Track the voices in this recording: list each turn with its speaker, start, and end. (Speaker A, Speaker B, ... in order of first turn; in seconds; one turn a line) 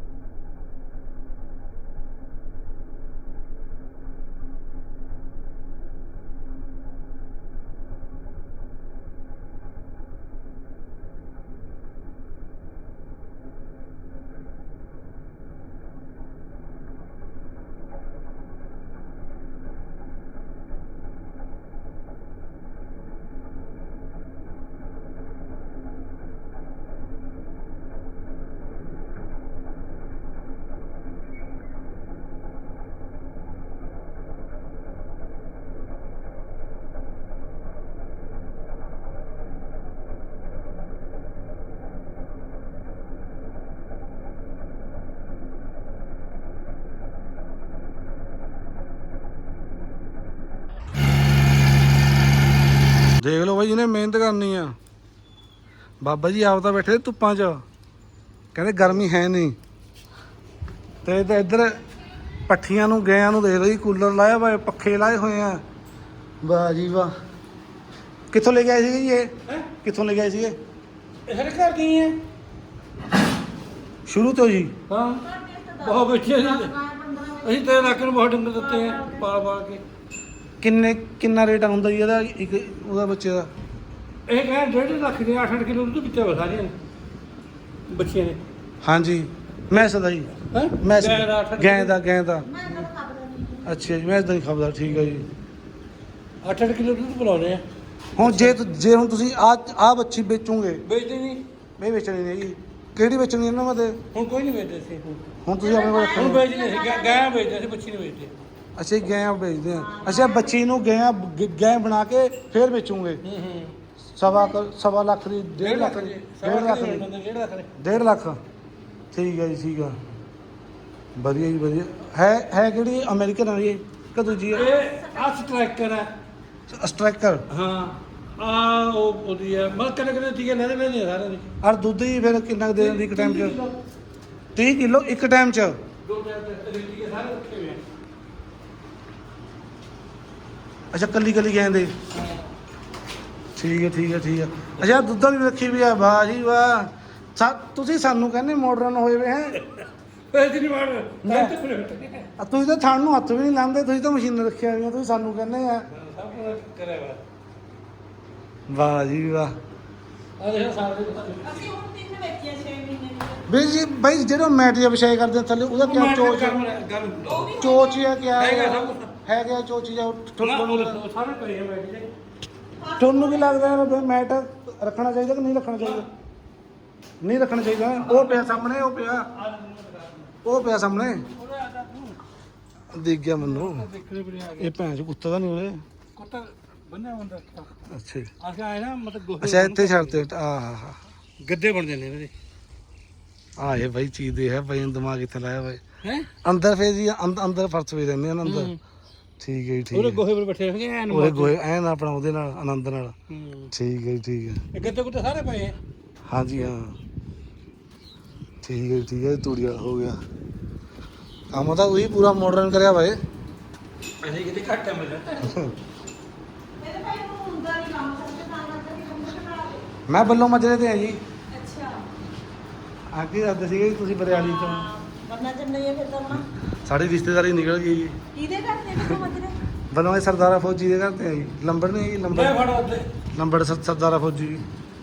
Speaker A: 53.2-54.7
Speaker A: 56.0-57.6
Speaker A: 58.5-59.5
Speaker A: 61.0-61.8
Speaker A: 62.5-65.6
Speaker A: 66.4-67.1
Speaker A: 68.3-70.5
Speaker B: 71.3-72.2
Speaker A: 74.1-74.7
Speaker B: 74.9-75.2
Speaker C: 75.2-79.3
Speaker B: 75.8-76.7
Speaker B: 77.4-79.8
Speaker A: 80.6-83.5
Speaker B: 84.3-86.7
Speaker B: 87.9-88.4
Speaker A: 88.8-92.5
Speaker B: 90.5-91.9
Speaker C: 92.4-93.7
Speaker A: 93.6-95.3
Speaker B: 96.4-97.6
Speaker B: 98.2-98.6
Speaker A: 98.2-100.8
Speaker B: 100.8-101.4
Speaker A: 101.8-104.0
Speaker B: 104.1-105.3
Speaker A: 105.4-106.4
Speaker C: 105.6-107.6
Speaker B: 106.1-108.3
Speaker A: 108.8-113.2
Speaker C: 109.8-110.6
Speaker B: 113.2-113.8
Speaker A: 114.2-117.1
Speaker C: 114.2-114.6
Speaker B: 115.6-117.7
Speaker A: 117.8-118.4
Speaker A: 119.1-120.0
Speaker A: 121.2-124.7
Speaker C: 124.5-125.6
Speaker B: 124.5-126.1
Speaker A: 126.7-127.4
Speaker B: 127.5-131.5
Speaker A: 131.6-133.6
Speaker B: 132.8-133.7
Speaker A: 134.6-135.8
Speaker B: 136.0-137.8
Speaker A: 140.9-141.9
Speaker B: 142.1-142.5
Speaker A: 143.6-149.6
Speaker B: 150.3-152.3
Speaker A: 151.2-151.5
Speaker A: 152.4-155.9
Speaker B: 155.9-157.2
Speaker A: 158.7-159.5
Speaker B: 160.4-161.6
Speaker C: 161.4-163.4
Speaker A: 163.5-166.6
Speaker B: 165.7-167.6
Speaker C: 167.2-168.1
Speaker A: 167.6-171.0
Speaker B: 168.4-169.1
Speaker B: 170.4-172.1
Speaker C: 172.8-173.8
Speaker A: 173.0-176.1
Speaker A: 177.2-179.3
Speaker B: 178.0-178.5
Speaker B: 179.3-180.3
Speaker A: 180.4-181.3
Speaker B: 181.3-182.2
Speaker A: 182.9-183.8
Speaker B: 183.4-184.8
Speaker A: 184.6-185.8
Speaker B: 186.2-187.7
Speaker A: 187.9-188.3
Speaker B: 188.4-190.2
Speaker A: 189.4-191.0
Speaker B: 191.4-192.3
Speaker A: 193.6-195.8
Speaker B: 196.0-196.3
Speaker A: 196.4-198.7
Speaker B: 198.4-198.8
Speaker A: 199.4-200.2
Speaker B: 199.9-201.5
Speaker A: 201.1-203.1
Speaker B: 203.3-203.7
Speaker A: 203.7-204.6
Speaker B: 204.7-205.8
Speaker A: 206.3-207.0
Speaker A: 208.6-210.2
Speaker A: 211.5-213.2
Speaker B: 214.2-215.5
Speaker A: 215.4-215.7
Speaker C: 216.8-219.8
Speaker A: 220.1-221.2
Speaker C: 221.5-222.0
Speaker A: 223.1-224.9
Speaker C: 224.3-226.4
Speaker A: 226.3-228.2
Speaker C: 228.3-229.6
Speaker A: 229.9-232.6
Speaker B: 232.3-233.1
Speaker A: 233.3-234.6